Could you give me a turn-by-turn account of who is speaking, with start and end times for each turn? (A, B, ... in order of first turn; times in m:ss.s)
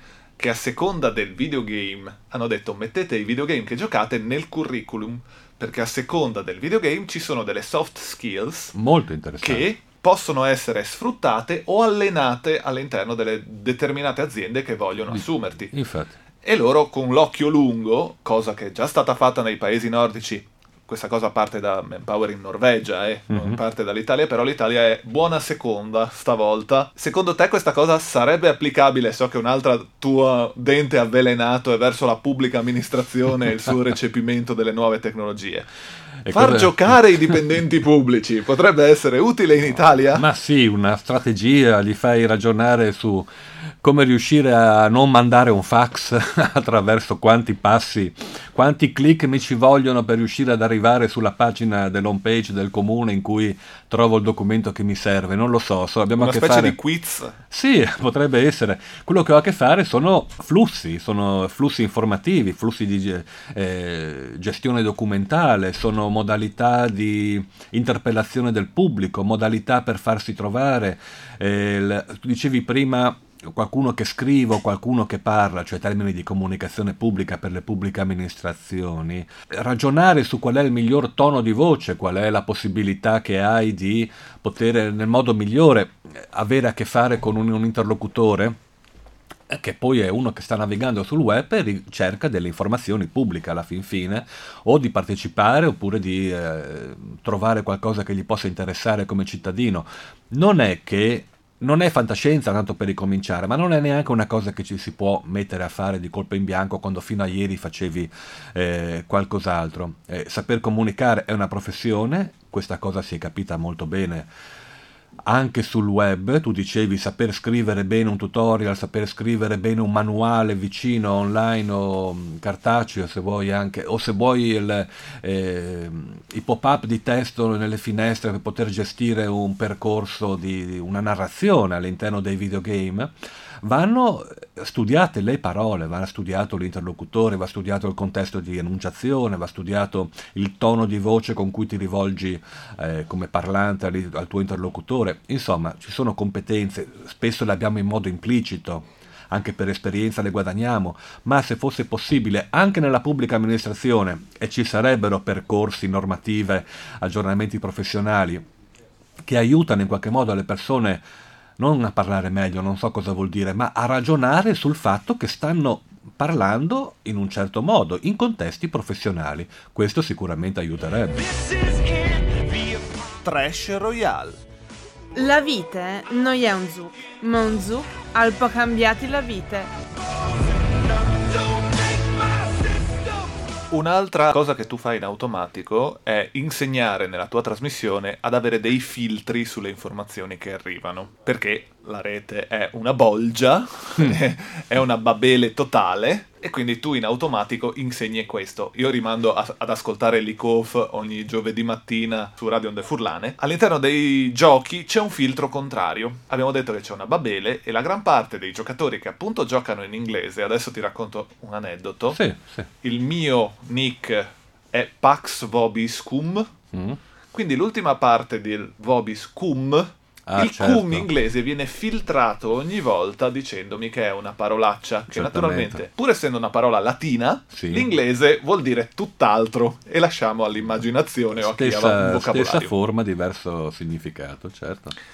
0:00.4-0:08.7 A
0:08.7-0:09.6 B
0:09.4-0:15.7 A
0:15.1-0:16.2 B
0:16.4-0:35.7 A
0:23.3-0:23.6 B
0:36.2-0:37.4 B
0:36.3-0:40.2 A
0:40.1-0:43.3 B
0:43.8-0:56.8 B
0:56.2-0:57.4 A
0:57.5-1:28.6 B
1:29.5-1:54.3 B
1:55.2-2:38.4 B
2:39.2-2:41.0 B
2:41.6-2:51.3 B
2:51.2-2:54.4 A
2:55.1-2:59.7 C
3:01.0-3:03.2 A
3:03.7-3:32.2 A
3:32.1-3:32.7 B
3:32.8-3:36.5 A
3:36.7-3:37.0 B
3:37.3-3:52.7 A
3:40.3-3:41.1 B
3:45.1-3:45.8 B
3:47.5-3:47.9 B
3:51.4-3:54.9 B